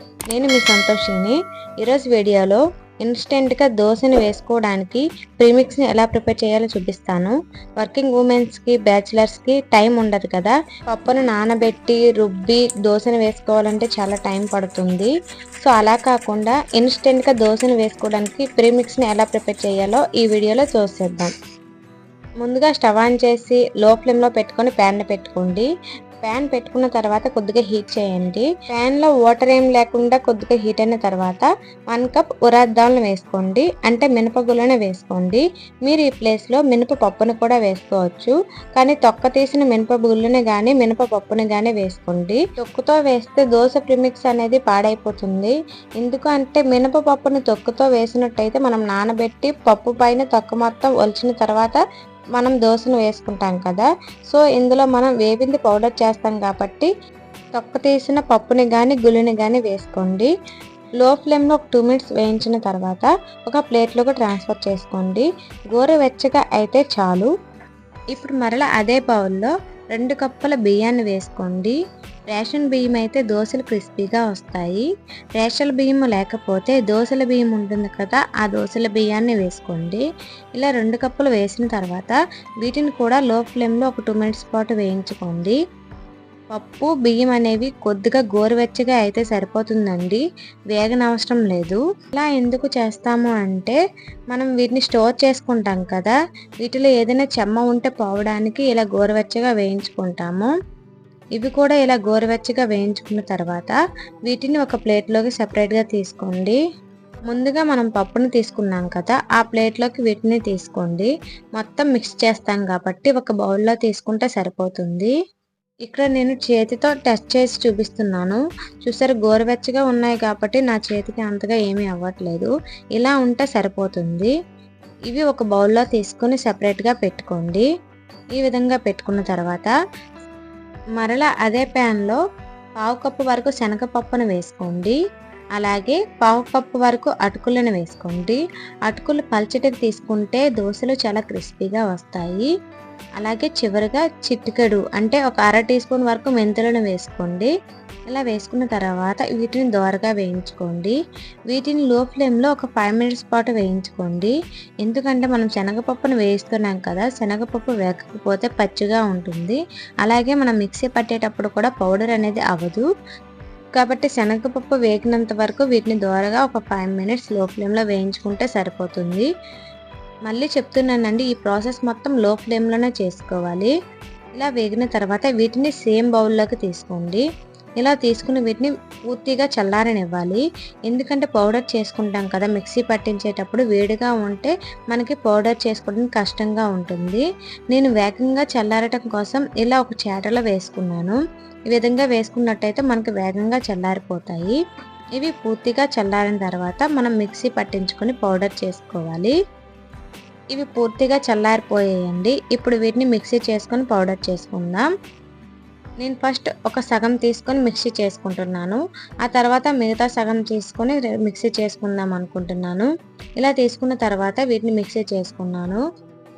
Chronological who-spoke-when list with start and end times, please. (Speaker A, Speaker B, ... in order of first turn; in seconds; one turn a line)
Speaker A: 0.3-15.1
Speaker A: 15.6-21.3
Speaker A: 22.4-25.7
Speaker A: 26.2-51.8
Speaker A: 52.4-56.9
Speaker A: 57.6-60.3
Speaker A: 61.0-67.3
Speaker A: 68.1-71.8
Speaker A: 72.3-80.0
Speaker A: 80.5-85.6
Speaker A: 86.5-93.8
Speaker A: 94.3-100.5
Speaker A: 101.4-103.8
Speaker A: 104.3-106.6
Speaker A: 107.3-115.1
Speaker A: 115.9-124.3
Speaker A: 125.1-127.7
Speaker A: 128.4-129.7
Speaker A: 131.0-132.2
Speaker A: 132.8-135.0
Speaker A: 135.6-142.5
Speaker A: 143.2-147.5
Speaker A: 148.1-151.0
Speaker A: 151.5-162.8
Speaker A: 163.8-169.3
Speaker A: 170.3-173.7
Speaker A: 174.4-177.2
Speaker A: 177.8-191.2
Speaker A: 191.7-194.6
Speaker A: 195.2-199.3
Speaker A: 200.5-204.9
Speaker A: 206.0-212.9
Speaker A: 213.4-215.8